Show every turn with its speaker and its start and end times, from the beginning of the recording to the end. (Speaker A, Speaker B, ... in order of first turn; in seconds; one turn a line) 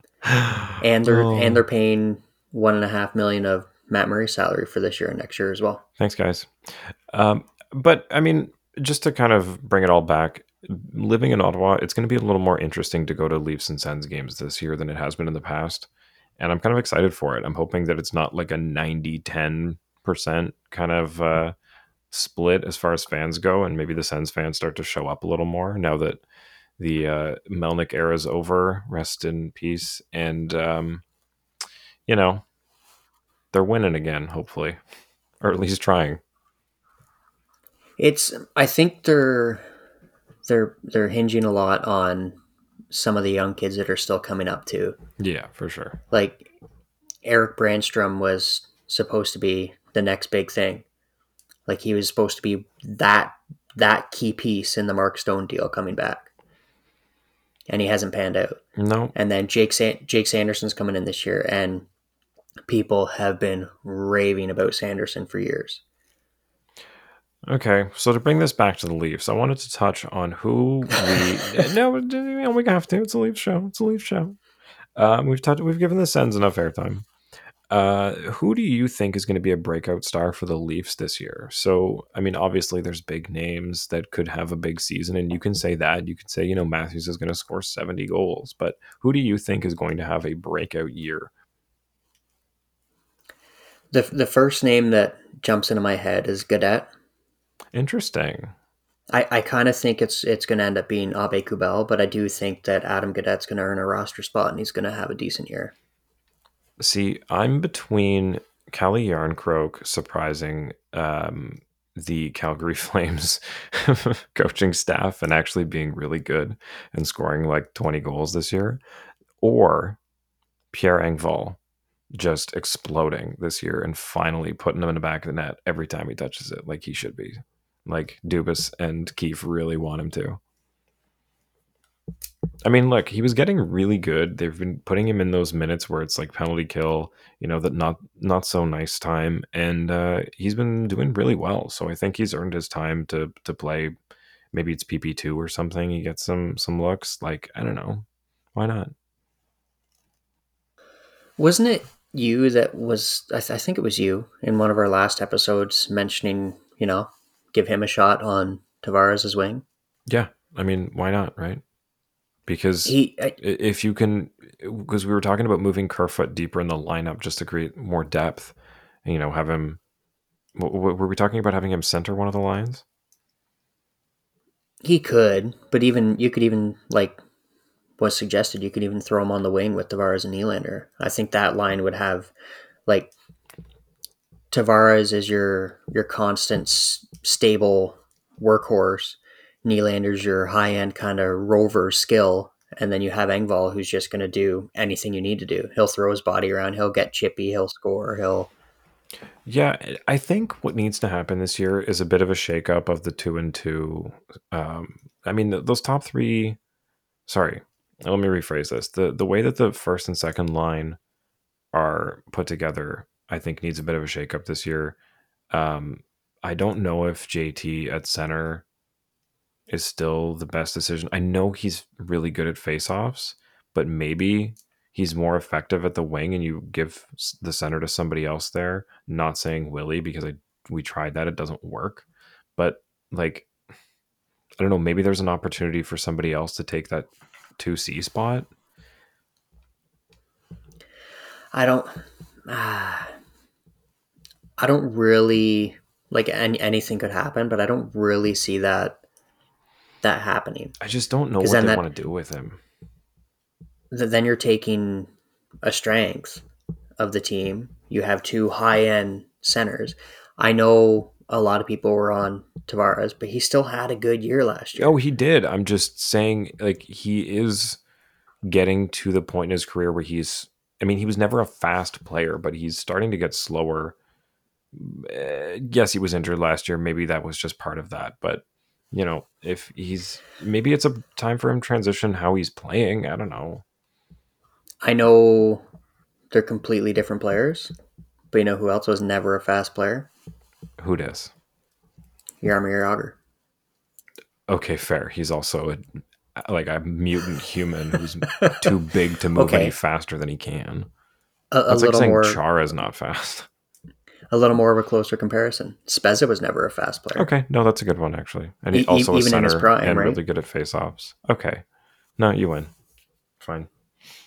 Speaker A: 0.2-1.6
Speaker B: 0.8-5.8
Speaker A: 6.0-15.9
Speaker A: 16.4-21.6
Speaker A: 22.1-26.2
Speaker A: 26.8-31.0
Speaker A: 32.1-32.4
Speaker A: 33.5-34.8
Speaker A: 35.4-36.2
Speaker B: 38.0-39.7
Speaker B: 40.5-42.4
Speaker B: 42.9-45.0
Speaker A: 45.2-46.0
Speaker B: 46.1-46.5
Speaker B: 47.2-50.8
Speaker B: 51.7-56.3
Speaker B: 57.7-58.6
Speaker A: 58.8-59.1
Speaker B: 59.1-61.9
Speaker B: 62.7-65.8
Speaker A: 67.5-74.4
Speaker A: 75.0-77.1
Speaker A: 77.7-91.3
Speaker B: 93.9-96.9
Speaker A: 97.7-98.5
Speaker B: 99.1-105.7
Speaker A: 106.8-118.8
Speaker A: 119.4-120.0
Speaker A: 120.7-121.6
Speaker A: 122.1-130.4
Speaker A: 132.6-144.0
Speaker A: 144.5-148.9
Speaker B: 151.4-159.6
Speaker A: 160.1-161.6
Speaker A: 162.5-168.5
Speaker B: 162.9-163.3
Speaker A: 169.1-169.8
Speaker A: 170.6-172.8
Speaker B: 174.8-177.2
Speaker B: 178.0-182.3
Speaker B: 182.9-183.1
Speaker B: 184.5-198.5
Speaker A: 199.5-206.6
Speaker A: 207.3-211.0
Speaker A: 211.7-215.0
Speaker A: 215.5-218.6
Speaker A: 219.7-232.1
Speaker A: 232.6-233.5
Speaker A: 234.6-238.5
Speaker B: 241.5-243.1
Speaker B: 244.6-249.0
Speaker B: 250.0-250.8
Speaker A: 250.8-252.6
Speaker B: 251.4-251.8
Speaker B: 253.9-255.1
Speaker B: 255.6-256.4
Speaker B: 257.0-264.9
Speaker A: 264.8-267.8
Speaker A: 268.4-273.9
Speaker A: 274.7-283.6
Speaker B: 284.8-285.6
Speaker B: 286.3-287.7
Speaker B: 288.3-290.1
Speaker A: 290.8-291.3
Speaker B: 292.4-293.2
Speaker A: 294.5-300.9
Speaker B: 298.4-298.7
Speaker B: 299.4-299.7
Speaker B: 301.5-302.4
Speaker A: 301.7-303.5
Speaker B: 304.3-307.3
Speaker A: 307.1-311.6
Speaker B: 308.7-310.2
Speaker A: 312.2-312.7
Speaker A: 313.4-313.7